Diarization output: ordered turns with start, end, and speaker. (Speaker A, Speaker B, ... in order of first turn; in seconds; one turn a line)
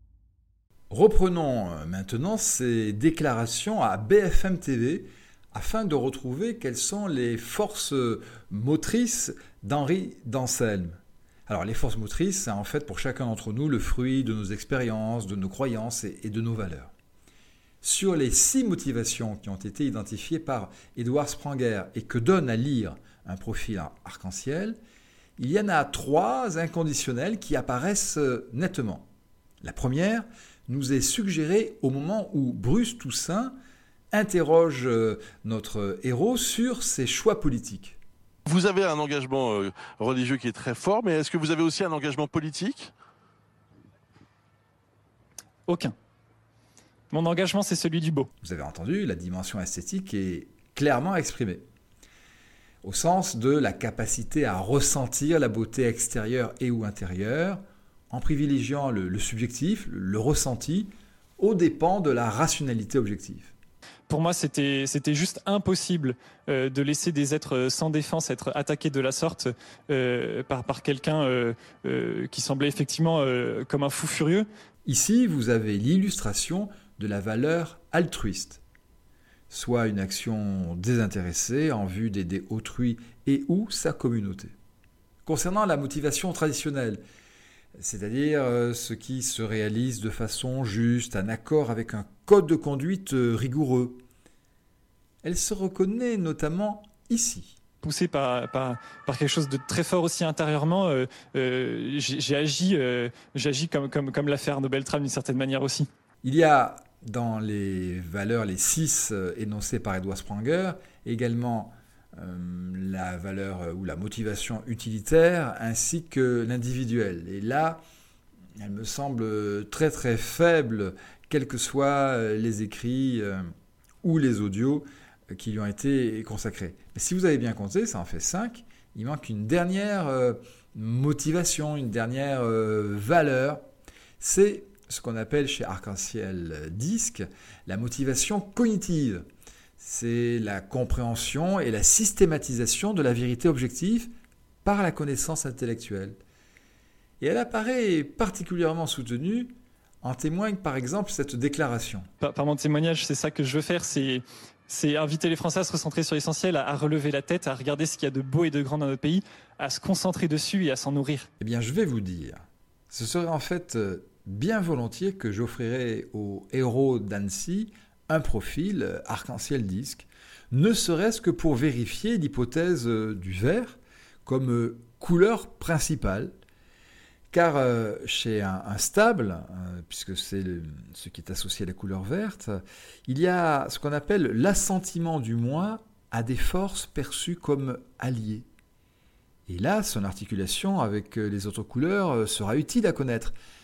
Speaker A: 0.9-16.9
Speaker A: 17.8-24.8
Speaker A: 25.4-29.1
Speaker A: 29.6-33.6
Speaker A: 34.1-38.0
Speaker B: 38.5-42.9
Speaker C: 45.7-45.9
Speaker C: 47.1-48.3
Speaker A: 48.4-51.6
Speaker A: 52.8-63.5
Speaker C: 64.1-74.5
Speaker A: 74.9-78.6
Speaker A: 79.5-84.5
Speaker A: 85.3-87.0
Speaker A: 87.8-94.0
Speaker A: 95.2-97.6
Speaker C: 97.8-105.9
Speaker A: 106.2-117.8
Speaker A: 118.6-123.5
Speaker A: 124.0-133.6
Speaker A: 134.2-139.3
Speaker A: 139.8-144.1
Speaker A: 144.7-146.2
Speaker A: 147.2-152.1
Speaker C: 152.2-161.3
Speaker A: 161.4-176.3
Speaker A: 177.3-188.5
Speaker A: 189.5-193.3